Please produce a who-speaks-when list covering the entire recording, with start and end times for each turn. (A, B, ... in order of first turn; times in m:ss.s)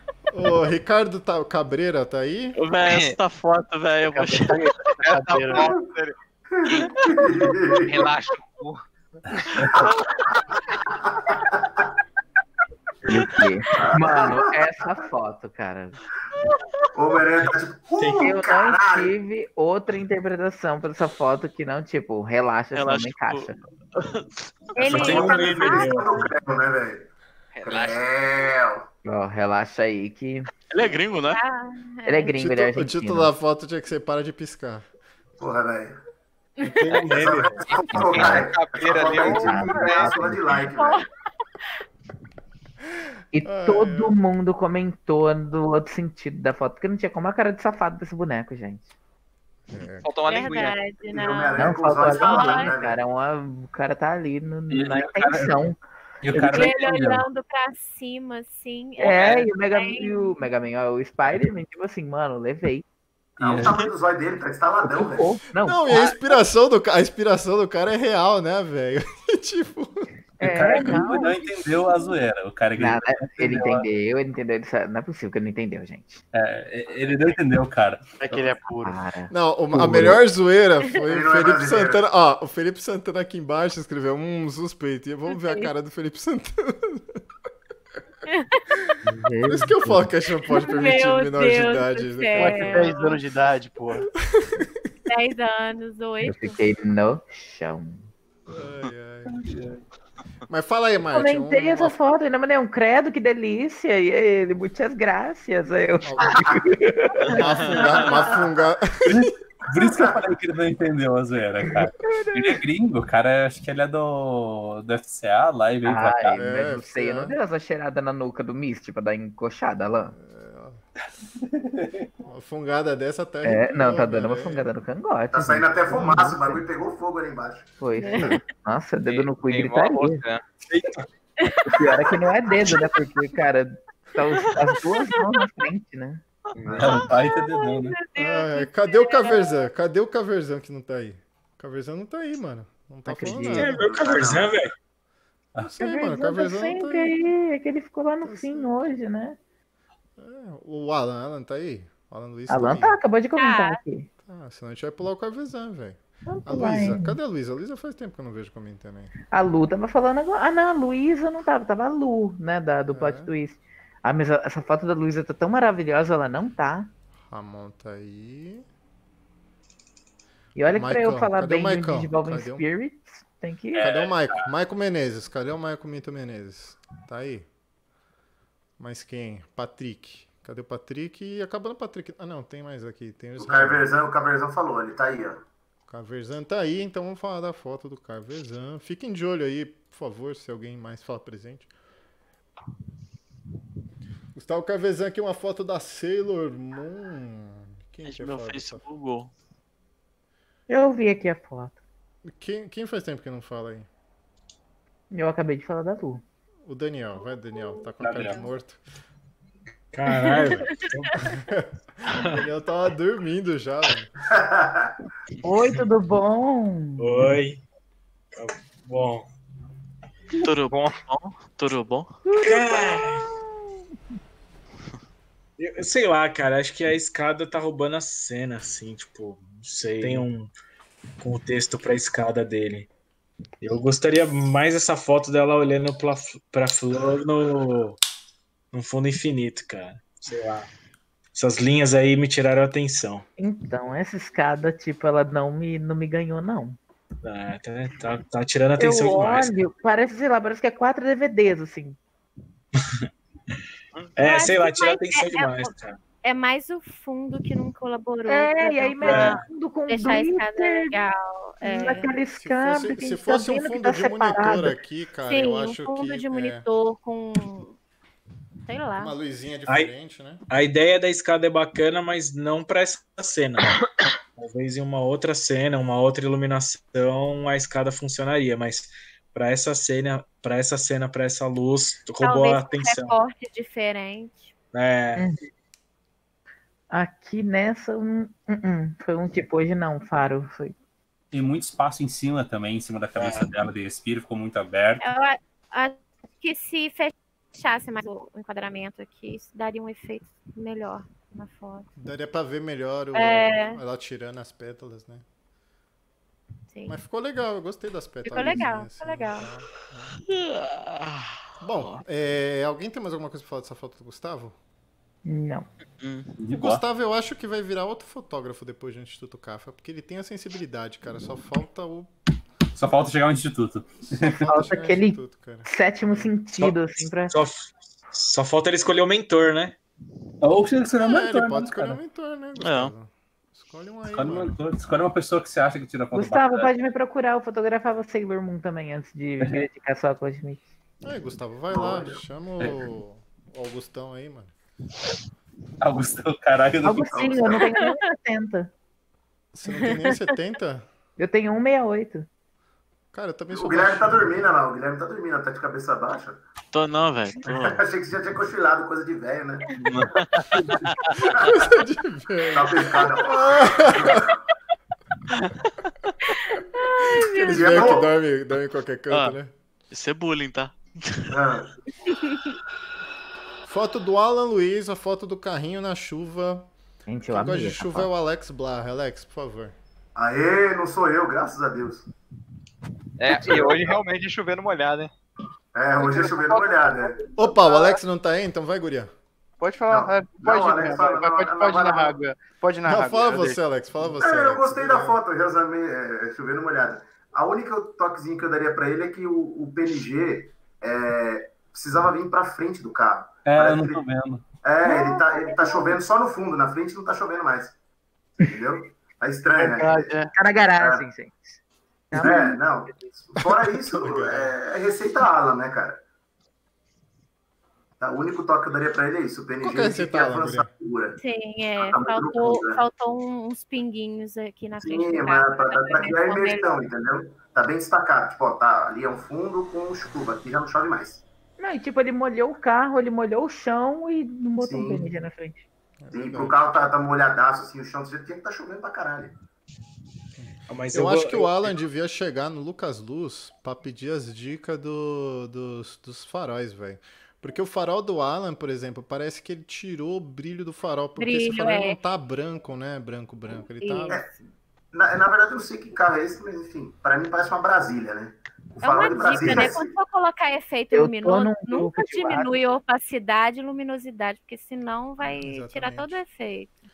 0:00.3-0:02.6 A
0:02.6-0:04.7 B
0:02.8-0:03.2 C
0:04.1-0:05.8 D
0:05.0-0:06.1 C
0:06.5-0:08.1 E
0:07.8-0:08.8 C
0:09.7-0:11.9 E
0:13.0-0:16.0 F
0:13.7-0:14.6 E
0:16.9-0:19.1 E
0:18.1-0:23.7 F
0:22.7-0:24.8 B
0:24.7-0:26.3 G
0:24.8-0:27.1 E
0:24.8-0:26.2 H
0:27.5-0:28.0 C
0:27.6-0:28.8 E
0:29.0-0:30.5 F
0:30.7-0:31.4 B
0:31.2-0:32.4 G
0:32.0-0:33.3 F
0:32.3-0:34.8 A
0:35.4-0:36.0 E
0:36.6-0:36.9 G
0:36.8-0:37.6 H
0:36.9-0:37.2 C
0:37.0-0:41.0 E
0:37.9-0:40.2 C
0:39.2-0:40.6 F
0:40.6-0:41.1 G
0:43.3-0:48.9 F
0:43.4-0:44.2 A
0:49.7-0:50.1 A
0:50.0-0:50.8 C
0:50.2-0:52.7 G
0:51.1-0:53.0 E
0:51.6-0:55.8 F
0:54.7-0:55.7 I
0:56.2-0:57.2 I
0:56.3-0:56.8 F
0:56.5-1:00.3 G
0:59.0-1:02.8 F
1:03.4-1:05.4 E
1:03.4-1:03.7 I
1:03.6-1:03.8 B
1:04.8-1:06.2 F
1:05.6-1:10.1 A
1:10.4-1:11.4 F
1:10.4-1:13.8 I
1:12.8-1:16.2 F
1:16.3-1:18.2 I
1:18.2-1:18.9 D
1:18.8-1:20.2 F
1:19.3-1:27.2 A
1:21.1-1:22.0 E
1:25.3-1:25.7 G
1:28.3-1:28.6 G
1:29.0-1:30.0 F
1:29.4-1:32.9 A
1:30.5-1:33.2 G
1:32.3-1:34.1 D
1:34.2-1:34.7 A
1:35.1-1:36.6 G
1:36.2-1:38.0 F
1:38.5-1:39.4 A
1:40.5-1:42.0 A
1:41.1-1:47.8 F
1:46.0-1:46.7 A
1:46.3-1:46.6 E
1:47.3-1:48.0 B
1:47.3-1:49.3 A
1:47.6-1:48.3 G
1:49.0-1:56.4 I
1:52.1-1:52.6 F
1:55.8-2:00.1 F
1:56.3-1:57.4 A
2:00.1-2:00.8 A
2:01.4-2:02.1 I
2:02.2-2:04.6 A
2:03.4-2:06.6 F
2:05.3-2:07.8 E
2:07.8-2:10.2 F
2:08.0-2:08.4 G
2:09.0-2:10.4 C
2:10.7-2:11.0 I
2:11.4-2:12.9 G
2:11.7-2:16.2 F
2:16.5-2:17.0 C
2:16.8-2:18.0 I
2:16.9-2:19.6 G
2:18.2-2:23.9 A
2:23.0-2:23.8 F
2:23.6-2:24.7 H
2:23.7-2:24.6 E
2:25.6-2:27.1 A
2:25.8-2:29.4 F
2:28.2-2:28.8 A
2:30.2-2:33.0 A
2:32.5-2:34.1 F
2:33.4-2:33.8 G
2:34.2-2:39.1 A
2:36.2-2:37.2 F
2:39.3-2:46.9 F
2:42.9-2:43.3 A
2:47.3-2:48.6 A
2:50.6-2:53.9 F
2:50.7-2:52.6 A
2:53.8-2:57.5 A
2:53.8-2:54.4 I
2:58.8-3:03.8 A
3:03.4-3:05.4 E
3:05.9-3:11.7 A
3:14.3-3:18.8 A
3:18.0-3:19.3 B
3:20.7-3:21.7 F
3:22.2-3:23.9 A
3:25.1-3:26.2 F
3:26.6-3:28.8 A
3:27.5-3:27.9 G
3:28.0-3:28.4 I
3:29.9-3:31.1 H
3:30.1-3:31.1 G
3:31.2-3:34.1 A
3:34.3-3:34.9 E
3:35.4-3:37.3 F
3:37.0-3:37.6 H
3:38.3-3:39.2 H
3:40.4-3:42.2 B
3:40.7-3:41.0 C
3:42.2-3:43.4 F
3:42.4-3:43.3 H
3:45.6-3:50.5 H
3:51.2-3:52.9 H
3:53.6-3:58.0 H
3:58.7-4:00.7 H
4:01.3-4:03.2 H
4:03.4-4:06.8 F
4:07.2-4:09.5 H
4:08.8-4:12.0 F
4:12.8-4:13.0 H
4:14.2-4:16.0 H
4:14.2-4:22.1 G
4:18.2-4:20.9 F
4:19.0-4:19.4 H
4:21.6-4:24.8 F
4:22.4-4:26.6 A
4:25.2-4:27.8 G
4:28.6-4:29.1 G
4:29.0-4:30.4 A
4:29.7-4:29.9 H
4:30.5-4:33.8 H
4:34.4-4:43.2 H
4:42.2-4:44.5 G
4:44.7-4:45.3 H
4:46.9-4:50.7 F
4:51.3-4:55.1 I
4:53.2-4:53.5 H
4:55.0-5:01.9 G
5:02.0-5:05.2 A
5:03.1-5:03.8 G
5:06.7-5:07.0 G
5:06.9-5:10.2 A
5:08.2-5:09.5 G
5:11.6-5:14.5 A
5:15.2-5:15.7 F
5:16.0-5:16.3 B
5:16.4-5:16.8 I
5:16.5-5:22.1 A
5:22.7-5:24.4 I
5:24.1-5:26.3 A
5:24.2-5:27.4 F
5:26.6-5:29.8 H
5:30.4-5:32.0 I
5:31.0-5:34.6 A
5:32.6-5:32.9 B
5:34.1-5:36.7 I
5:36.1-5:40.7 F
5:41.0-5:44.5 A
5:41.7-5:42.2 E
5:45.8-5:47.2 I
5:46.8-5:48.7 F
5:47.1-5:47.6 E
5:49.5-5:50.9 A
5:49.7-5:50.2 G
5:51.2-5:52.3 F
5:53.1-5:54.4 A
5:53.5-5:56.4 E
5:56.7-5:57.8 B
5:57.5-5:57.8 A
5:57.5-5:59.7 E
5:59.8-6:01.3 B
6:01.3-6:04.2 A
6:02.5-6:04.4 E
6:06.3-6:08.0 G
6:07.2-6:09.5 A
6:07.5-6:08.1 E
6:09.1-6:09.4 B
6:09.9-6:11.3 B
6:11.3-6:11.7 E
6:13.6-6:16.7 A
6:17.1-6:18.1 F
6:17.3-6:19.7 A
6:20.1-6:22.1 E
6:23.2-6:25.1 C
6:25.7-6:27.3 E
6:26.0-6:26.9 D
6:27.3-6:29.1 A
6:29.6-6:33.6 D
6:29.9-6:32.2 E
6:32.8-6:35.2 A
6:34.2-6:44.0 E
6:43.4-6:44.4 I
6:44.6-6:47.8 E
6:44.8-6:45.9 F
6:48.4-6:50.1 E
6:49.6-6:50.3 D
6:50.3-6:51.6 F
6:50.8-6:51.0 E
6:52.1-6:52.6 F
6:52.2-6:56.0 E
6:53.4-6:54.5 A
6:58.0-7:01.2 E
6:59.6-7:00.7 A
7:01.2-7:06.8 G
7:01.8-7:02.8 E
7:04.8-7:11.2 E
7:11.6-7:15.6 F
7:14.6-7:15.1 E
7:16.0-7:16.6 A
7:16.1-7:19.3 E
7:20.4-7:34.2 A
7:20.7-7:21.8 H
7:31.2-7:32.0 G
7:33.8-7:34.2 G
7:34.9-7:39.9 E
7:38.8-7:46.8 G
7:40.9-7:42.5 F
7:45.2-7:46.2 A